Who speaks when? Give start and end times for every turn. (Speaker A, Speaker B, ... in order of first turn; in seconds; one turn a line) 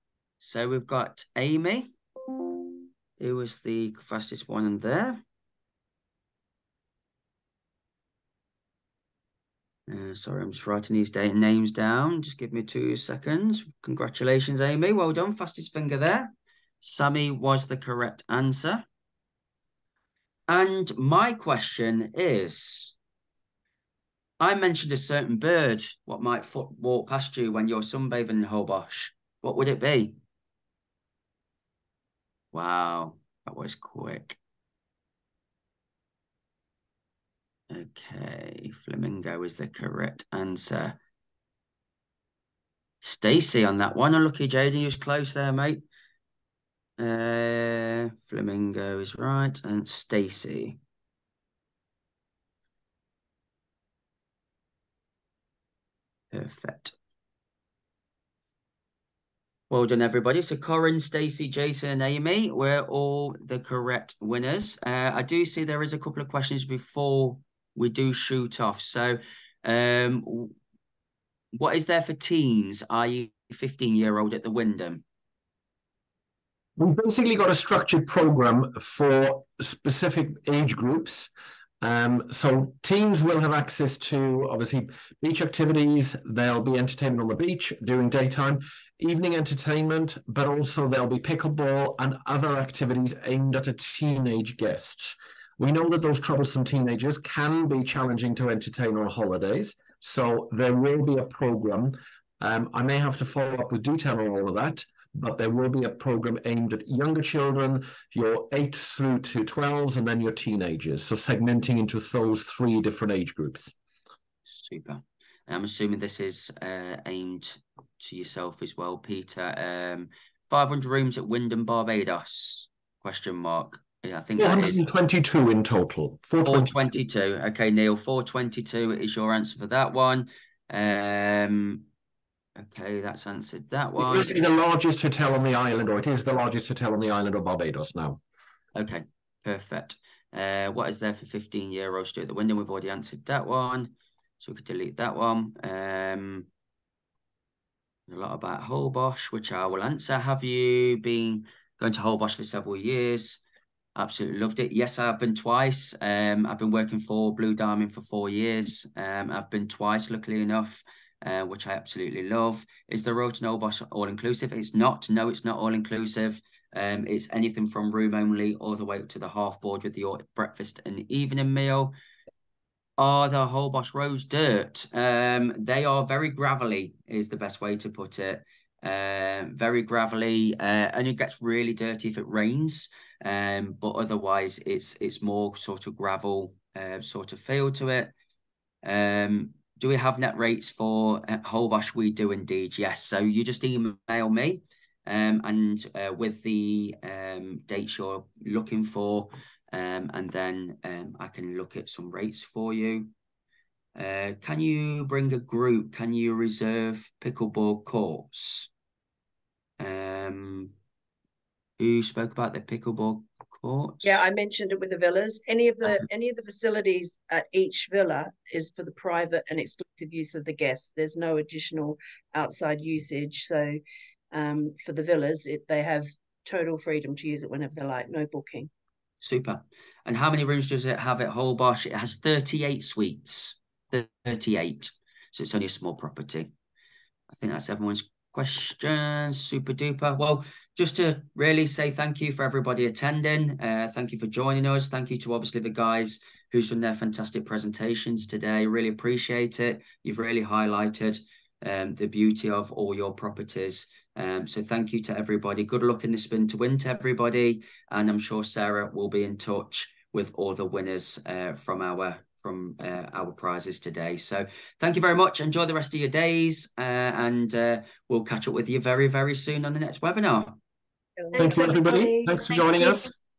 Speaker A: 0.4-1.9
Speaker A: 3.2-5.2
Speaker A: 9.9-18.8
Speaker A: 20.5-22.9
Speaker A: 24.4-30.2
Speaker A: 32.5-34.4
Speaker A: 37.7-41.0
Speaker A: 43.0-45.8
Speaker A: 47.0-50.8
Speaker A: 56.3-56.9
Speaker A: 59.7-70.5
Speaker A: 71.5-75.0
Speaker B: 76.8-81.3
Speaker B: 81.8-113.7
Speaker A: 114.5-124.9
Speaker B: 124.4-126.9
Speaker A: 126.4-131.8
Speaker A: 132.6-134.5
Speaker B: 134.0-138.2
Speaker A: 138.7-146.5
Speaker A: 148.1-153.4
Speaker A: 153.9-171.9
Speaker A: 173.0-188.1
Speaker A: 188.8-203.1
Speaker A: 203.9-208.7
Speaker A: 209.8-210.7
Speaker A: 211.8-214.2
Speaker C: 214.0-223.8
Speaker C: 224.3-228.7
Speaker A: 229.2-236.5
Speaker A: 237.3-270.6
Speaker C: 271.2-272.6
Speaker B: 271.4-273.1